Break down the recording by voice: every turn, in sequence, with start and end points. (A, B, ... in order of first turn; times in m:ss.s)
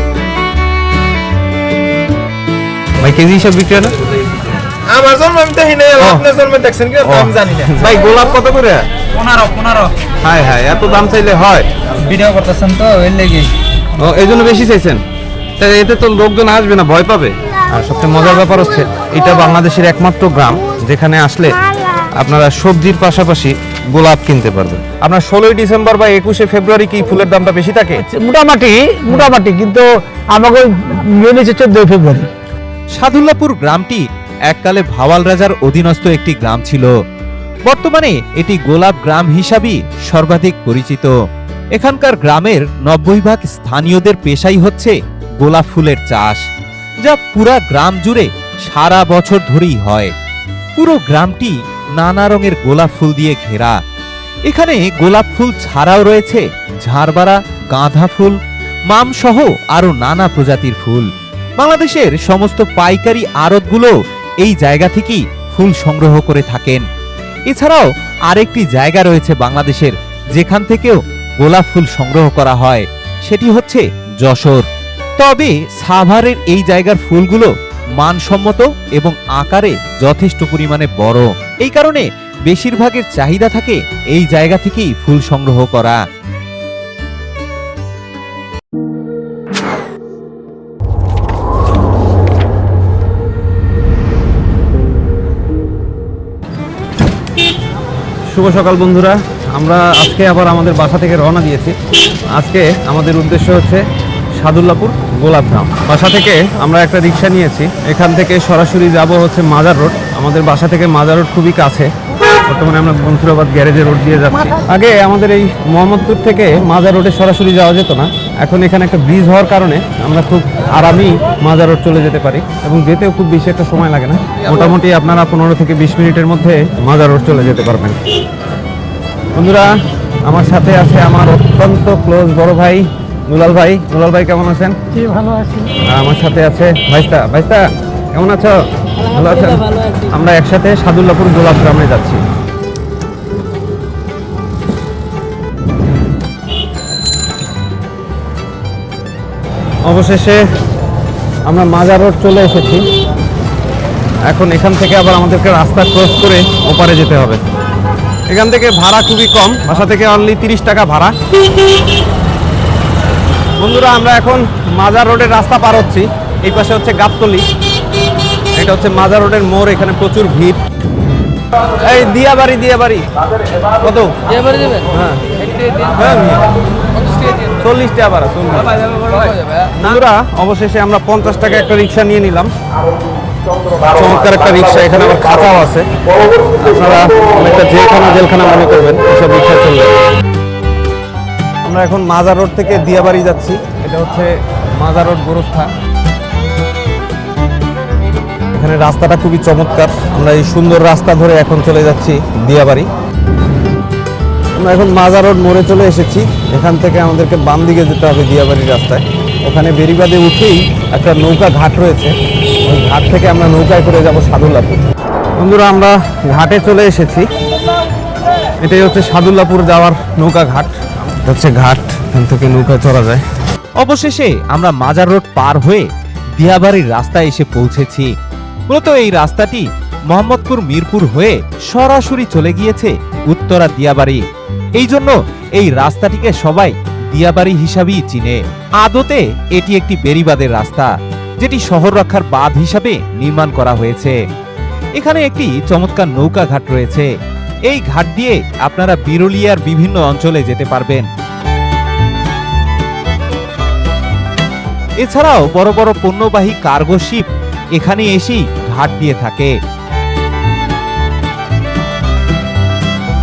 0:03.0-0:03.9 A
0:04.9-0:07.8 B
0:06.0-0:06.3 A
0:07.0-0:08.8 A
0:09.2-0:09.9 C
0:10.2-0:11.7 A
0:12.0-0:13.5 C
0:14.0-0:15.0 A
0:15.6-0:21.6 A
0:22.2-0:28.0 A
0:28.0-0:32.3 D
0:29.1-0:29.3 A
0:32.9-0:36.9 E
0:37.7-0:41.1 E
0:41.7-0:46.4 E
0:47.0-0:50.1 E
0:50.8-0:53.8 E
0:54.5-0:58.4 E
0:58.9-1:01.1 E
1:01.6-1:06.8 E
1:07.5-1:14.6 E
1:15.2-1:26.0 E
1:38.3-1:41.7 A
1:42.3-1:43.8 A
1:44.4-1:51.9 A
1:52.4-2:08.0 A
2:09.3-2:09.7 A
2:10.2-2:14.7 A
2:15.1-2:15.4 D
2:15.8-2:22.2 A
2:29.8-2:30.4 A
2:31.4-2:32.8 A
2:34.3-2:37.4 A
2:38.3-2:41.1 A
2:43.6-2:47.4 A
2:48.6-2:50.6 A
2:51.8-2:53.1 A
2:53.8-2:54.1 A
2:54.9-2:55.2 A
2:55.9-2:56.4 A
2:57.6-2:58.7 A
2:59.8-3:02.5 A
3:03.9-3:05.9 A
3:06.6-3:09.9 A
3:11.6-3:15.7 A
3:18.5-3:22.9 A
3:24.6-3:34.8 A
3:35.4-3:37.3 A
3:38.6-3:43.2 A
3:43.8-3:45.8 E
3:46.4-3:48.1 E
3:48.7-3:54.2 E
3:54.8-4:04.2 E
4:05.0-4:07.1 E
4:07.7-4:11.1 E
4:15.0-4:19.5 E